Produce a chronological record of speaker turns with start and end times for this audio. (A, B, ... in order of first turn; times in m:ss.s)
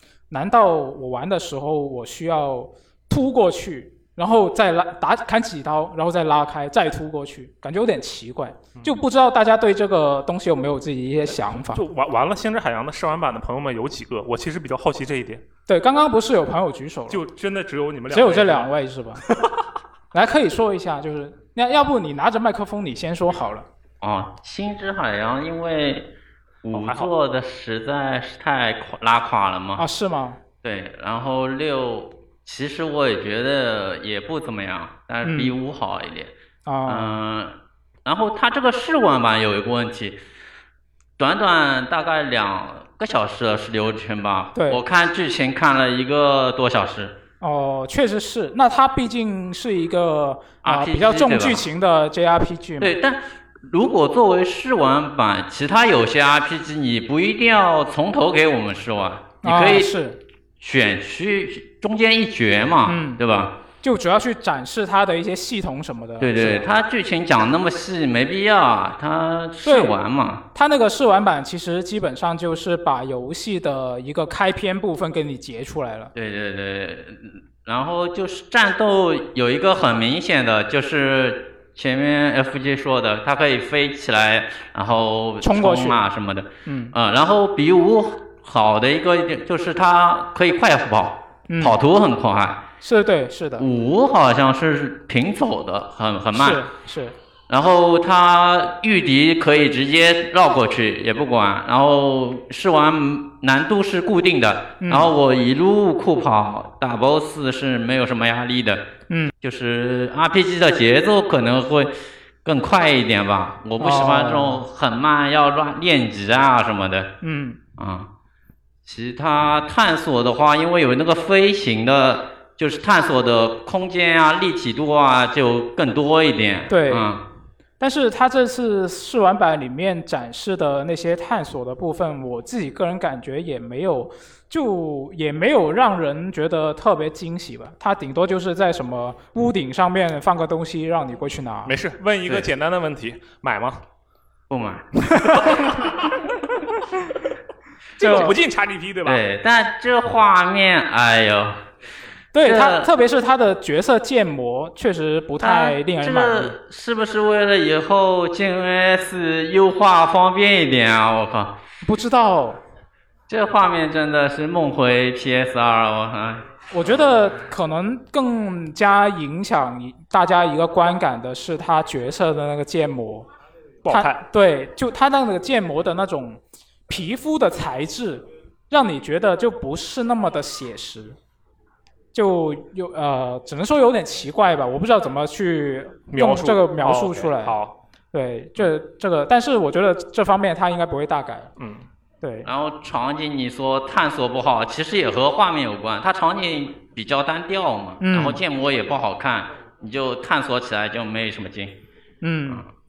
0:00.3-0:11.8 A
0:08.8-0:09.0 B
0:11.3-0:15.4 B
0:15.7-0:17.2 A
0:17.1-0:18.7 B
0:18.1-0:19.3 A
0:20.1-0:23.7 A
0:24.0-0:26.1 C
0:26.6-0:29.8 C
0:26.7-0:27.1 B
0:29.8-0:30.4 A
0:30.6-0:36.3 C
0:35.2-0:35.5 A
0:36.7-0:37.1 A
0:36.8-0:40.2 C
0:41.2-0:47.2 C
0:44.6-0:44.8 A
0:47.4-0:52.9 A
0:50.6-0:51.7 C
0:52.8-0:59.9 C
0:59.4-1:00.2 A
1:00.6-1:03.6 C
1:02.9-1:03.2 A
1:03.8-1:06.7 A
1:06.2-1:10.4 C
1:09.6-1:10.0 A
1:10.5-1:16.1 A
1:16.1-1:32.7 C
1:25.4-1:26.0 A
1:26.7-1:26.9 A
1:31.5-1:31.8 A
1:32.8-1:33.7 A
1:33.6-1:36.6 C
1:36.4-1:37.2 A
1:37.5-1:48.9 C
1:44.8-1:45.1 A
1:49.4-1:57.1 C
1:53.8-1:54.6 A
1:57.2-1:57.6 A
1:57.8-1:58.1 C
1:58.8-2:07.2 C
2:06.7-2:07.1 A
2:07.8-2:21.8 A
2:21.7-2:23.8 B
2:24.5-2:24.9 C
2:28.0-2:29.2 B
2:28.0-2:28.4 A
2:29.0-2:31.6 C
2:32.3-2:36.5 A
2:32.4-2:32.9 C
2:35.4-2:41.6 C
2:41.8-2:42.6 A
2:43.3-2:46.5 C
2:46.7-2:53.3 A
2:53.8-2:54.2 B
2:53.9-3:01.2 A
3:02.1-3:07.6 A
3:06.1-3:07.8 B
3:08.1-3:11.5 A
3:11.6-3:11.9 B
3:12.2-3:12.5 A
3:12.4-3:21.8 C
3:18.0-3:18.4 A
3:22.2-3:22.7 A